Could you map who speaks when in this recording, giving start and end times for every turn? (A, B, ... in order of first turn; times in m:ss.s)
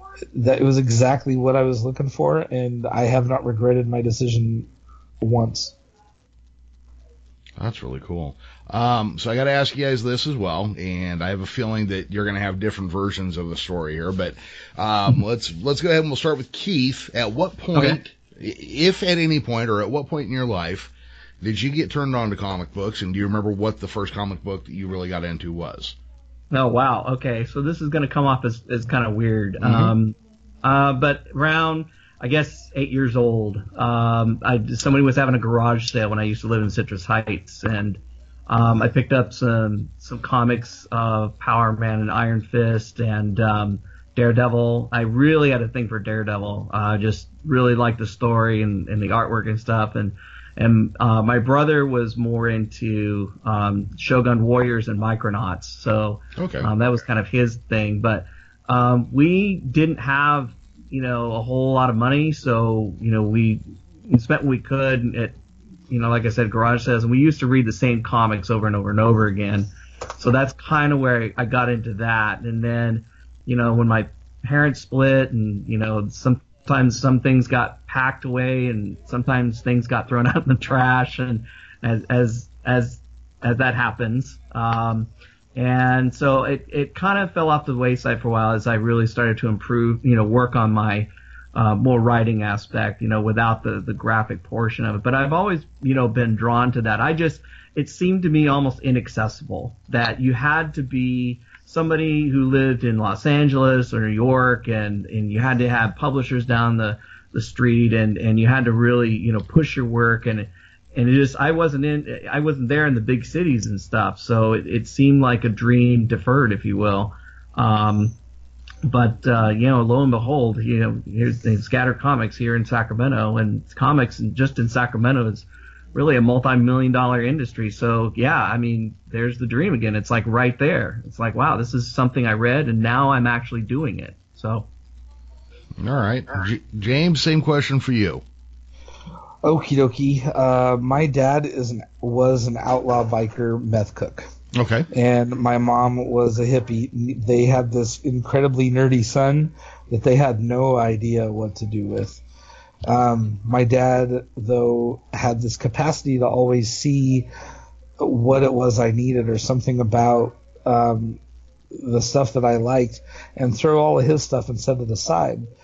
0:00.3-0:04.7 A
0:05.2-0:05.7 A
0:07.6-0:26.0 B
0:26.5-1:05.4 C
0:29.6-0:29.9 B
0:56.4-0:56.7 B
1:05.9-1:58.1 C
1:58.8-2:14.7 C
2:15.8-2:18.2 B
2:19.4-2:24.3 A
2:24.5-2:24.9 B
2:24.9-2:32.2 A
2:32.9-2:37.3 A
2:38.0-2:41.2 A
2:41.7-2:45.5 A